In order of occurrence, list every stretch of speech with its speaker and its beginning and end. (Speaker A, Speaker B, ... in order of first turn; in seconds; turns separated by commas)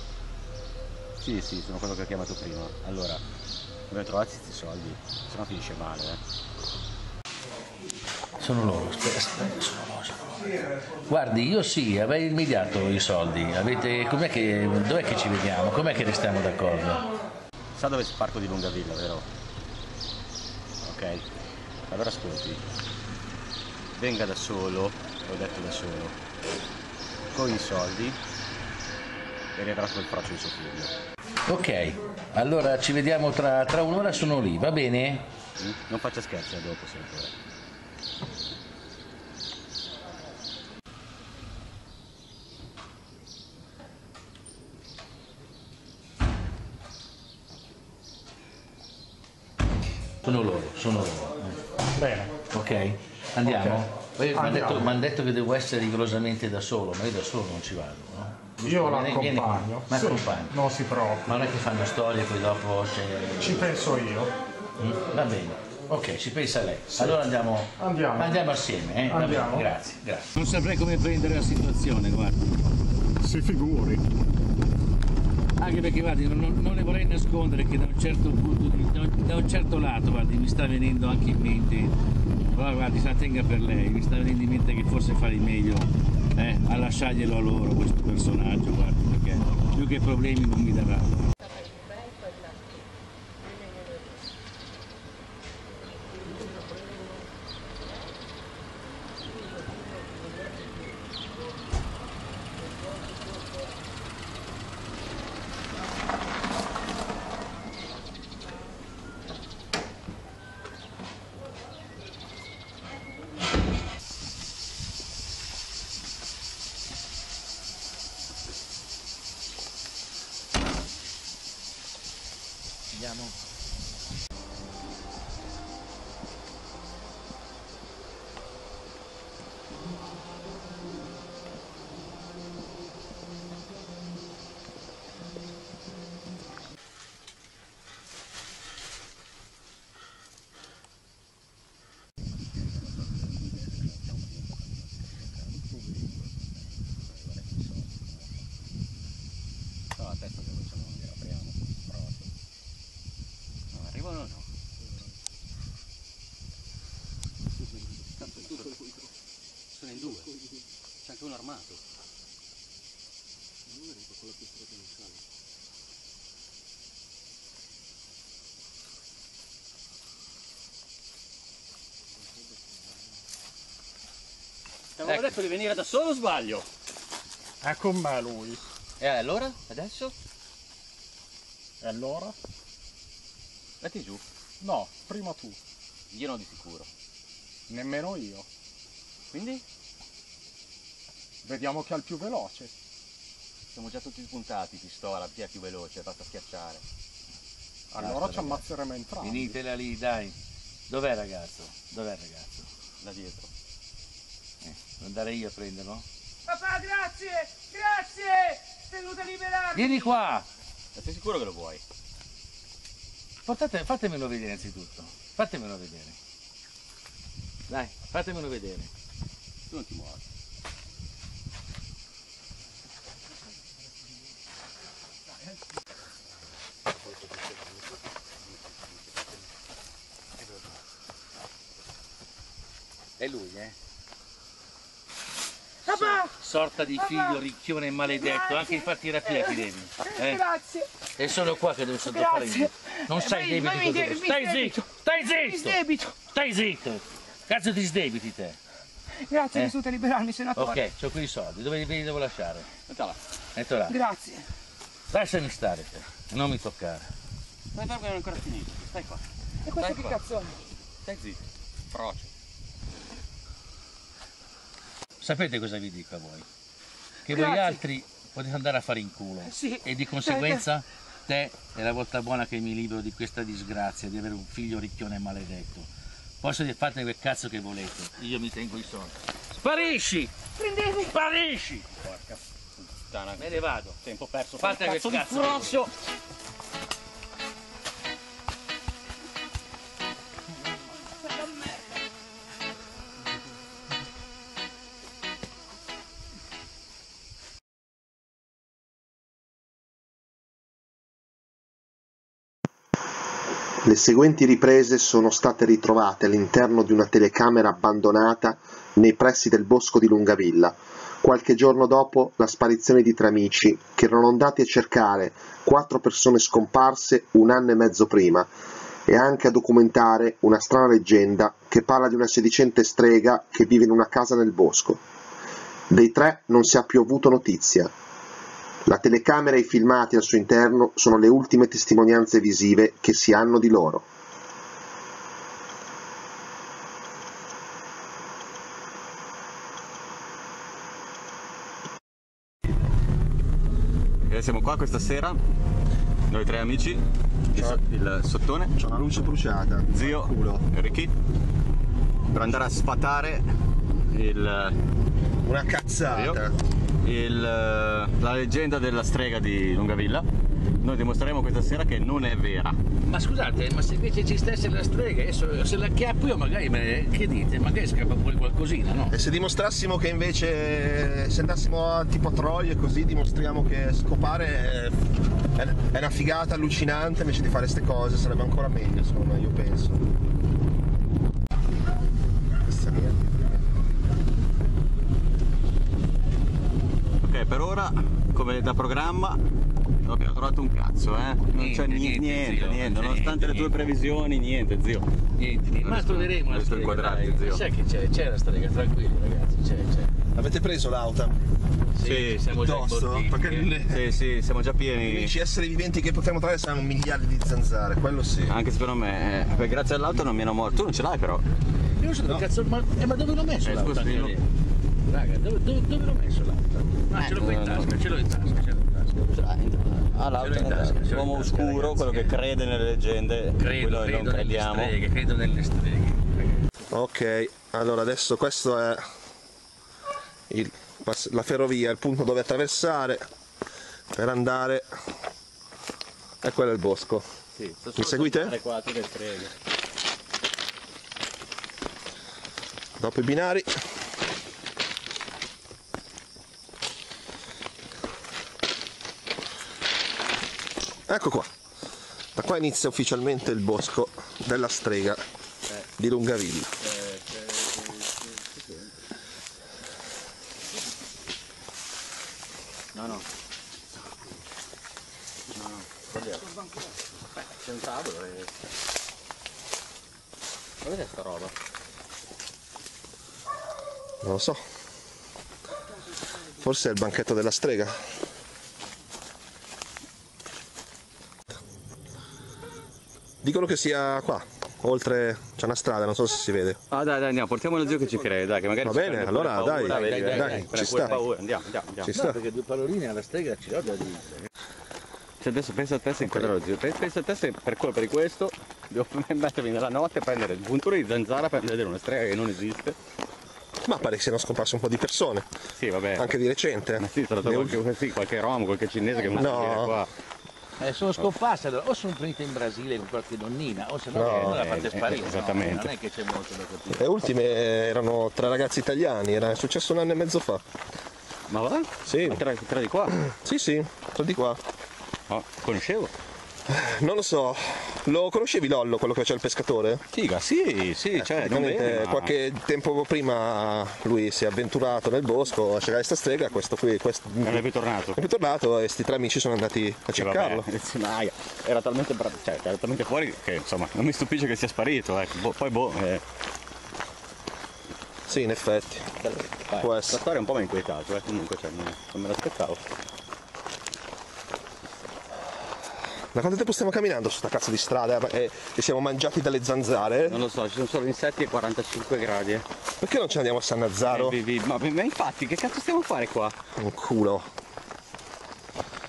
Speaker A: 1.2-3.2, Speaker A: 3.9-6.2, Speaker B: 8.4-10.5, Speaker B: 11.1-17.1, Speaker A: 17.8-19.3, Speaker A: 20.8-21.2, Speaker A: 21.9-22.6, Speaker A: 23.9-26.2, Speaker A: 27.3-28.2, Speaker A: 29.6-30.9, Speaker B: 31.5-35.3, Speaker A: 35.6-37.3, Speaker B: 50.2-51.6, Speaker C: 52.0-52.4, Speaker B: 52.5-60.5, Speaker C: 53.5-54.9, Speaker C: 58.6-61.3, Speaker B: 61.3-63.9, Speaker C: 63.4-64.3, Speaker B: 64.8-72.5, Speaker C: 66.9-68.5, Speaker C: 69.1-69.7, Speaker C: 73.2-74.0, Speaker B: 75.6-82.0, Speaker B: 82.5-91.3, Speaker B: 122.9-123.3, Speaker A: 142.9-145.9, Speaker A: 147.1-148.4, Speaker A: 149.9-152.3, Speaker A: 153.7-154.5, Speaker A: 158.2-159.1, Speaker A: 159.7-160.3, Speaker A: 161.0-161.8, Speaker A: 175.0-176.7, Speaker B: 175.1-175.3, Speaker C: 177.6-178.6, Speaker A: 179.0-180.1, Speaker C: 181.8-182.4, Speaker A: 183.8-184.2, Speaker C: 184.6-185.6, Speaker A: 186.1-186.9, Speaker C: 187.7-188.5, Speaker A: 189.3-189.6, Speaker C: 191.4-192.7, Speaker A: 193.7-196.8, Speaker C: 197.9-199.6, Speaker B: 198.0-198.7, Speaker B: 199.2-200.4, Speaker B: 200.9-202.7, Speaker A: 203.0-203.5, Speaker B: 204.6-206.0, Speaker D: 209.0-209.5, Speaker B: 209.7-210.5, Speaker A: 210.9-211.8, Speaker B: 213.5-216.2, Speaker B: 217.7-218.9, Speaker A: 219.7-220.2, Speaker B: 233.2-233.8, Speaker B: 235.9-240.5, Speaker D: 240.4-240.8, Speaker B: 241.2-248.6, Speaker D: 242.1-242.6, Speaker D: 243.3-244.8, Speaker D: 245.5-246.1, Speaker D: 249.3-250.8, Speaker B: 249.5-249.8, Speaker B: 250.5-252.7, Speaker A: 252.9-253.2, Speaker B: 253.6-254.0, Speaker D: 253.9-254.4, Speaker B: 255.1-257.1, Speaker A: 257.7-259.2, Speaker D: 259.7-260.5, Speaker A: 259.7-260.2, Speaker A: 261.1-262.3, Speaker B: 265.2-266.5, Speaker B: 267.3-275.9, Speaker D: 267.4-267.7, Speaker B: 276.4-281.9, Speaker A: 282.0-285.9, Speaker B: 283.4-284.0, Speaker B: 284.6-285.8, Speaker E: 303.8-318.5, Speaker E: 319.1-325.0, Speaker E: 325.9-327.9, Speaker E: 328.9-334.0, Speaker A: 344.2-345.4, Speaker A: 346.3-348.7, Speaker F: 348.8-350.6, Speaker A: 349.9-351.1, Speaker A: 352.3-353.4, Speaker A: 354.1-354.8, Speaker F: 355.4-356.5, Speaker A: 356.1-356.4, Speaker A: 357.0-360.3, Speaker A: 360.8-362.8, Speaker B: 363.1-369.2, Speaker F: 369.1-375.0, Speaker F: 375.5-380.0, Speaker F: 382.6-383.7, Speaker A: 387.2-389.4, Speaker A: 390.0-395.1, Speaker B: 391.5-393.7, Speaker B: 395.4-400.1, Speaker A: 395.8-397.6, Speaker F: 400.3-401.4, Speaker B: 401.9-403.7, Speaker A: 402.0-402.4, Speaker F: 402.5-404.1, Speaker A: 403.8-405.3, Speaker F: 405.0-408.6, Speaker A: 408.5-411.4, Speaker B: 412.0-414.5, Speaker A: 413.6-414.4, Speaker B: 415.1-419.3, Speaker A: 417.2-418.0, Speaker A: 419.2-424.9, Speaker B: 420.3-422.4, Speaker B: 423.6-426.4, Speaker F: 426.9-429.1, Speaker F: 430.5-433.3, Speaker F: 434.1-434.9, Speaker F: 436.4-437.2, Speaker A: 437.8-439.5, Speaker F: 438.0-438.6, Speaker F: 443.0-443.8, Speaker F: 451.1-451.5, Speaker F: 452.4-455.2, Speaker F: 456.0-456.7, Speaker A: 456.8-458.9, Speaker A: 462.9-463.2, Speaker A: 465.5-466.0, Speaker A: 467.4-468.5, Speaker A: 470.8-471.5, Speaker F: 474.2-474.6, Speaker F: 476.6-478.0, Speaker F: 483.4-486.8, Speaker A: 486.9-492.1, Speaker F: 488.8-491.2, Speaker B: 489.8-490.7, Speaker F: 492.0-492.4, Speaker B: 492.1-494.4, Speaker A: 495.4-503.0, Speaker F: 496.2-496.5, Speaker F: 503.9-505.5, Speaker A: 505.8-506.3, Speaker F: 506.2-507.8, Speaker A: 507.0-510.1, Speaker F: 509.3-510.0, Speaker B: 510.8-517.3, Speaker F: 514.1-514.6, Speaker A: 514.2-515.9, Speaker F: 516.9-520.6, Speaker A: 521.5-523.2, Speaker F: 522.1-522.4, Speaker F: 523.2-524.6, Speaker A: 525.3-526.1, Speaker F: 526.7-530.0, Speaker A: 530.1-532.3, Speaker F: 531.2-537.6, Speaker A: 537.4-538.2, Speaker F: 538.2-540.7, Speaker A: 540.2-546.2, Speaker F: 548.3-549.1, Speaker A: 549.2-552.8, Speaker F: 549.8-550.2, Speaker F: 556.3-560.5, Speaker A: 560.2-562.6, Speaker F: 563.0-564.4, Speaker A: 564.1-566.6, Speaker F: 566.8-567.5